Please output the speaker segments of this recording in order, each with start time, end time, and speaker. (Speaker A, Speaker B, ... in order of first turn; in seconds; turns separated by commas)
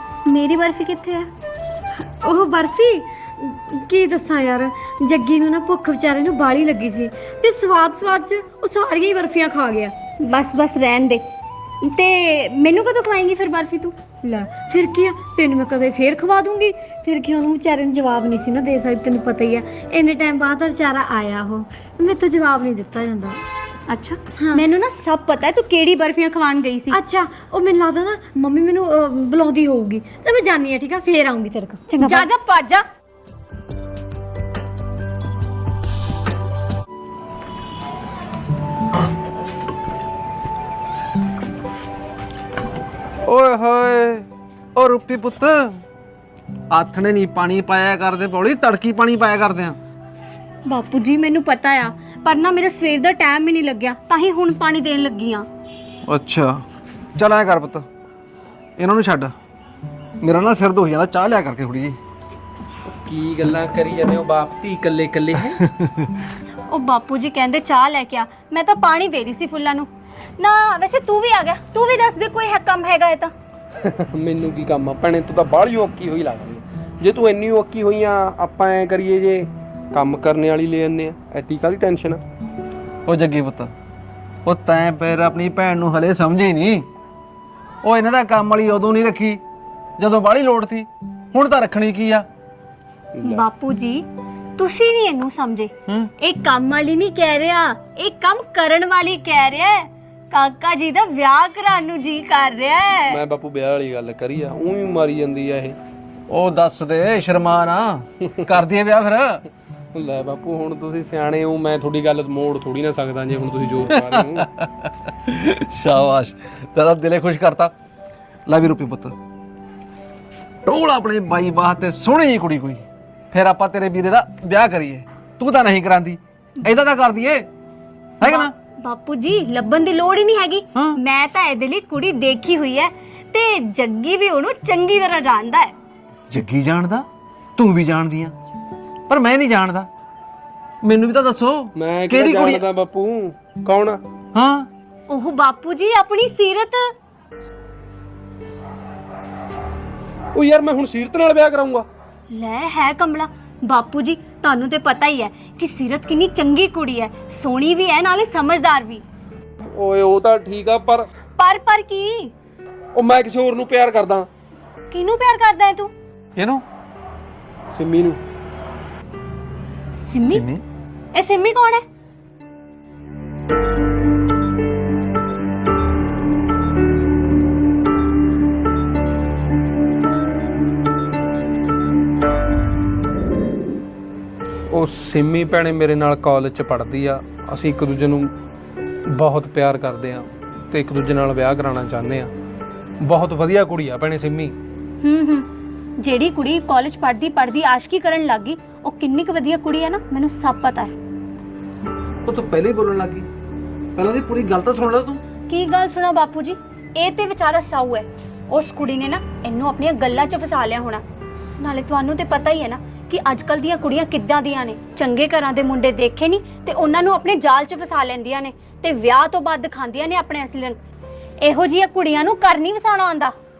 Speaker A: 0.2-1.3, Speaker B: 2.0-9.9, Speaker A: 10.2-11.3, Speaker A: 11.8-13.9, Speaker B: 14.2-23.4, Speaker A: 23.9-27.0, Speaker B: 24.4-24.6, Speaker B: 26.9-32.3, Speaker A: 32.0-32.8, Speaker C: 43.2-45.8, Speaker C: 46.7-49.8, Speaker A: 50.7-55.5, Speaker C: 56.0-56.6, Speaker C: 57.1-57.9, Speaker C: 58.8-59.3, Speaker C: 60.2-62.0, Speaker D: 63.0-65.6, Speaker C: 65.7-66.1, Speaker A: 66.7-73.3, Speaker D: 73.8-82.2, Speaker C: 83.0-83.7, Speaker C: 84.4-86.9, Speaker C: 87.8-89.4, Speaker C: 90.0-92.2, Speaker D: 93.2-93.4, Speaker A: 93.2-94.0, Speaker A: 94.6-103.2, Speaker D: 103.1-105.8, Speaker C: 106.3-109.4, Speaker D: 109.9-114.5, Speaker C: 113.9-117.7, Speaker C: 118.5-119.1, Speaker C: 120.6-127.5, Speaker C: 128.2-128.5, Speaker A: 128.2-135.7, Speaker C: 136.3-137.1, Speaker C: 137.6-138.3, Speaker C: 139.1-139.9, Speaker C: 140.8-142.6, Speaker D: 141.8-144.0, Speaker C: 144.3-144.7, Speaker A: 145.1-146.9, Speaker D: 150.3-151.8, Speaker A: 152.3-159.0, Speaker D: 159.6-161.1, Speaker A: 161.4-162.3, Speaker D: 162.9-164.3, Speaker A: 164.9-165.9, Speaker C: 166.3-166.6, Speaker D: 167.7-168.2, Speaker A: 169.9-170.4, Speaker C: 170.3-170.6, Speaker A: 171.1-171.8, Speaker D: 184.7-188.3, Speaker D: 189.1-192.3, Speaker D: 193.0-194.5, Speaker A: 195.0-195.5, Speaker A: 196.0-200.9, Speaker C: 202.2-203.3, Speaker C: 204.0-205.2, Speaker A: 205.5-211.0, Speaker A: 211.6-220.8, Speaker A: 221.4-223.3